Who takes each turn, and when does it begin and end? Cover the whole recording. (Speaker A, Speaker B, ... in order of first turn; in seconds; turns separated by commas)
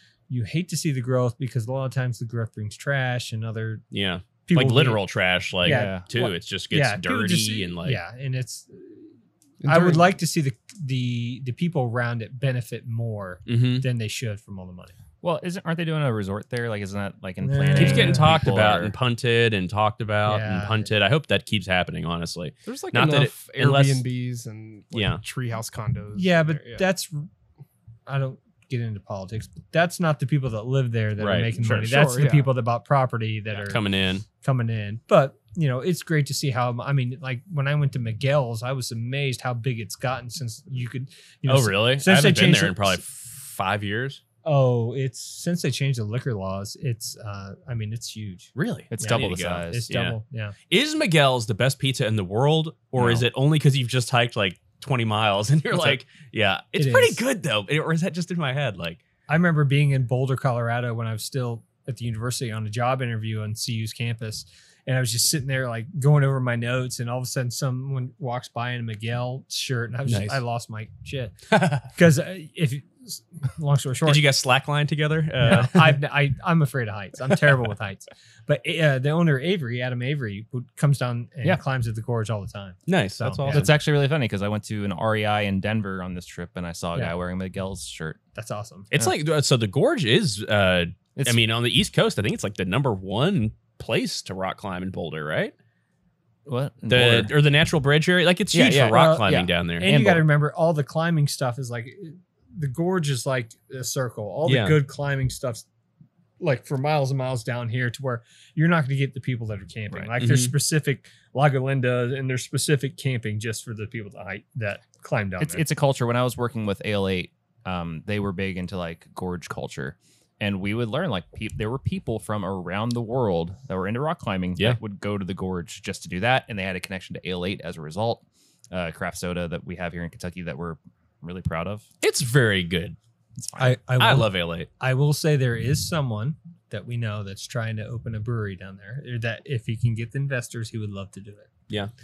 Speaker A: 0.3-3.8, Speaker B: 3.9-8.0, Speaker A: 4.5-5.0, Speaker A: 5.6-9.1, Speaker C: 5.7-6.0, Speaker D: 9.6-10.1, Speaker A: 9.7-14.9, Speaker B: 13.5-13.9, Speaker C: 15.2-18.9, Speaker A: 17.4-18.3, Speaker B: 17.8-24.0, Speaker A: 20.2-20.9, Speaker D: 22.7-26.9, Speaker B: 24.9-25.2, Speaker A: 26.1-27.3, Speaker A: 28.1-33.8, Speaker B: 31.2-31.5, Speaker C: 31.6-31.9, Speaker D: 31.6-32.5, Speaker B: 33.6-34.2, Speaker A: 34.4-43.0, Speaker B: 41.5-44.2, Speaker A: 44.5-50.5, Speaker B: 48.6-50.2, Speaker C: 48.9-49.9, Speaker B: 50.7-59.0, Speaker C: 53.0-53.3, Speaker A: 56.8-57.2, Speaker A: 59.3-74.2, Speaker B: 70.1-70.4, Speaker B: 71.5-71.8, Speaker B: 74.0-76.0, Speaker A: 75.4-83.7, Speaker B: 82.9-83.7, Speaker C: 83.5-88.2, Speaker A: 88.3-88.9, Speaker B: 88.9-95.5, Speaker C: 96.5-97.3, Speaker B: 96.9-100.1, Speaker C: 98.5-100.2, Speaker A: 98.9-105.7, Speaker B: 104.5-104.8, Speaker A: 106.4-115.6, Speaker B: 110.2-110.5, Speaker C: 115.4-131.8, Speaker B: 132.0-133.0, Speaker C: 133.4-133.8, Speaker A: 133.6-141.5, Speaker B: 134.0-134.7